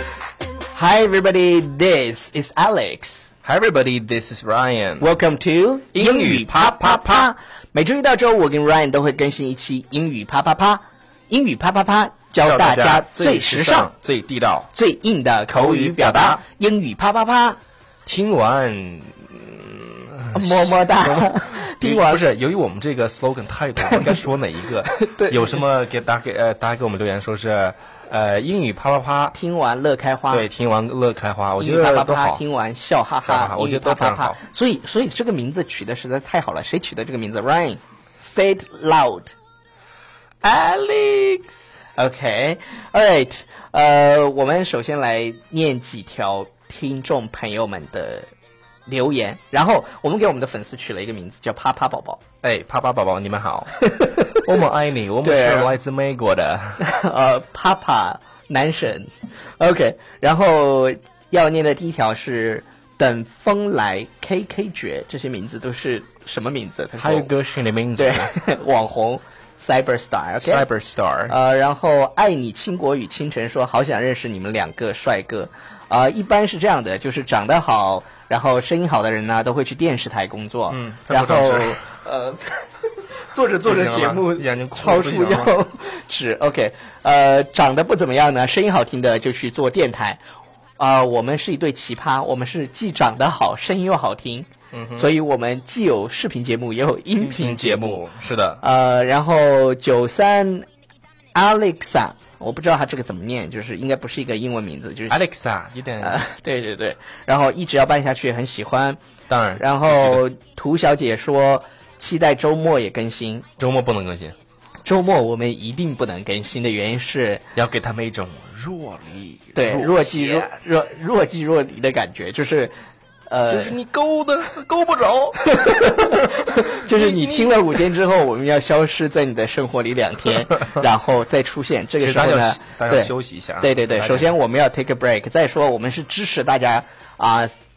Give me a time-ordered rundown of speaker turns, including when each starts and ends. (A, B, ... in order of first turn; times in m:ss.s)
0:00.7-0:03.3 A
0:03.4-0:05.1 B
0:05.0-0:13.9 A
0:05.9-0:07.3 B
0:12.4-0:14.7 B
0:14.7-0:17.6 A
0:15.5-0:16.4 B
0:18.0-0:29.4 B
0:20.3-0:22.2 A
0:23.8-0:24.2 A
0:24.8-0:25.6 A
0:29.3-0:30.5 A
0:30.3-0:32.4 B
0:31.6-0:39.3 A
0:33.2-0:34.4 B
0:40.4-0:41.8 B
0:41.9-0:48.3 A
0:48.8-0:52.2 A
0:52.4-0:56.8 B
0:53.8-0:54.6 A
0:55.2-0:55.8 A
0:56.8-1:07.3 A
1:07.0-1:08.4 B
1:08.0-1:10.6 A
1:10.4-1:11.3 B
1:11.3-1:30.2 A
1:20.7-1:21.8 B
1:23.6-1:25.5 B
1:30.8-1:38.0 A
1:34.7-1:35.1 B
1:37.2-1:38.6 B
1:38.6-1:40.6 A
1:41.3-1:45.3 A
1:45.1-1:46.2 B
1:46.0-1:49.0 A
1:49.3-1:50.2 B
1:49.6-1:53.4 A
1:53.6-1:54.4 B
1:54.8-1:57.4 A
1:57.5-2:00.5 B
1:59.5-2:02.7 A
2:03.3-2:03.8 A
2:03.5-2:08.0 B
2:05.4-2:17.5 A
2:12.0-2:14.3 B